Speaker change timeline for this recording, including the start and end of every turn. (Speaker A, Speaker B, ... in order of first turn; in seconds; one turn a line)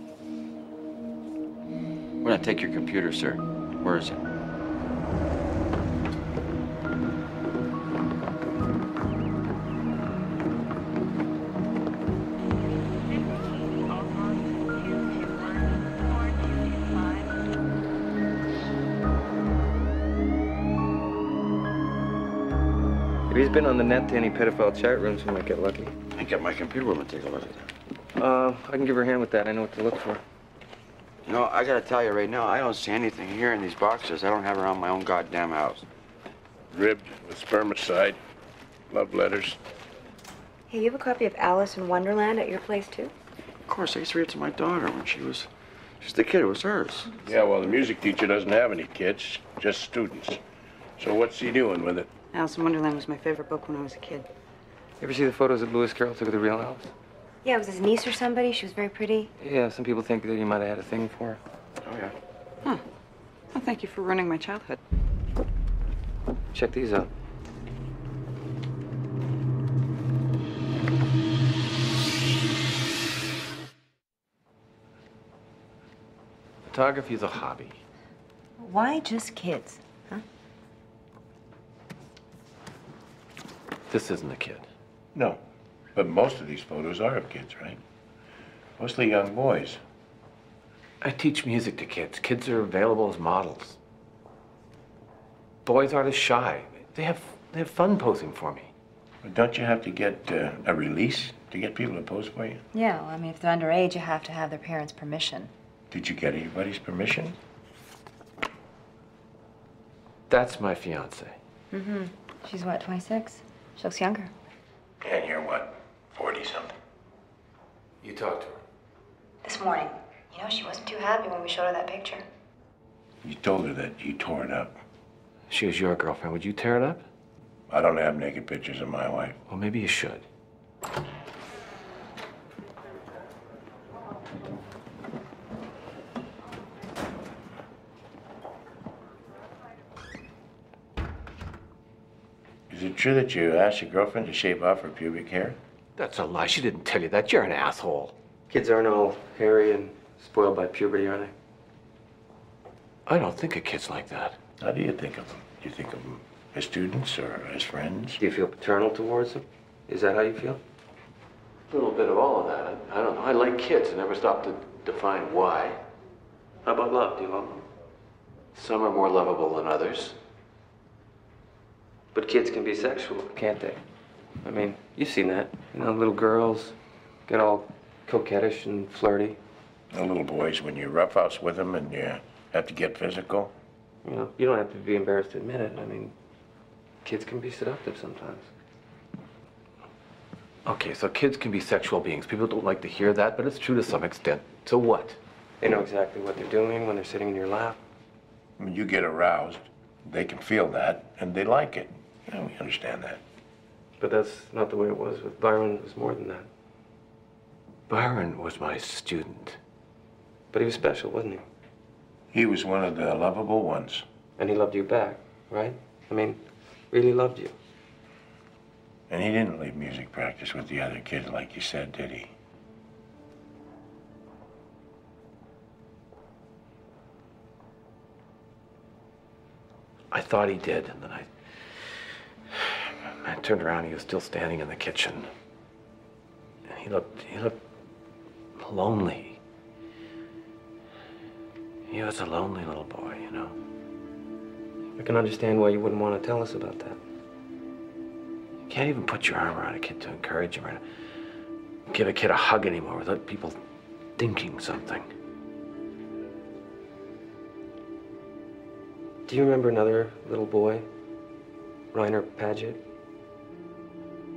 Speaker A: 2.2-4.2
Speaker B: 23.3-25.9
Speaker A: 26.1-27.7
Speaker B: 28.1-30.2
Speaker A: 31.2-35.9
Speaker C: 36.7-38.2
Speaker C: 38.9-39.6
Speaker D: 40.7-43.1
Speaker A: 43.7-45.5
Speaker A: 46.0-47.1
Speaker C: 47.2-50.4
Speaker C: 51.0-52.1
Speaker E: 52.3-54.3
Speaker B: 55.0-56.9
Speaker D: 57.4-59.3
Speaker B: 59.4-61.4
Speaker A: 61.8-62.1
Speaker E: 63.5-64.8
Speaker B: 66.5-67.1
Speaker F: 76.7-77.8
Speaker D: 78.6-80.2
Speaker F: 83.9-84.7
Speaker C: 85.1-85.4
Speaker C: 85.9-87.8
Speaker C: 88.8-89.8
Speaker F: 91.0-93.8
Speaker F: 95.6-98.7
Speaker C: 99.2-102.6
Speaker D: 102.7-105.5
Speaker C: 105.9-107.4
Speaker F: 110.3-111.4
Speaker D: 111.7-114.3
Speaker C: 115.0-116.7
Speaker F: 118.0-118.6
Speaker D: 119.4-122.2
Speaker C: 123.2-124.8
Speaker F: 125.5-127.0
Speaker C: 127.7-129.4
Speaker F: 129.5-130.2
Speaker C: 142.7-145.6
Speaker F: 145.9-148.2
Speaker B: 148.5-151.3
Speaker F: 153.1-154.4
Speaker C: 154.6-158.2
Speaker B: 158.2-160.6
Speaker F: 161.7-165.8
Speaker F: 166.7-167.5
Speaker B: 166.8-167.2
Speaker F: 168.5-170.2
Speaker B: 172.1-173.8
Speaker B: 174.4-176.8
Speaker B: 177.3-179.4
Speaker C: 179.9-183.5
Speaker B: 184.0-186.1
Speaker B: 187.0-188.5
Speaker F: 190.6-195.2
Speaker B: 195.6-197.8
Speaker C: 198.6-203.2
Speaker B: 204.0-206.5
Speaker F: 207.9-209.6
Speaker B: 210.5-211.4
Speaker C: 212.3-214.0
Speaker B: 214.4-216.4
Speaker B: 216.9-217.5
Speaker C: 219.1-222.3
Speaker F: 230.1-232.0
Speaker F: 232.5-235.3
Speaker F: 236.7-237.6
Speaker F: 238.6-239.4
Speaker F: 241.9-243.6
Speaker B: 245.0-247.0
Speaker F: 248.7-250.8
Speaker F: 251.9-253.6
Speaker F: 254.2-255.1
Speaker B: 259.3-260.9
Speaker B: 261.9-262.8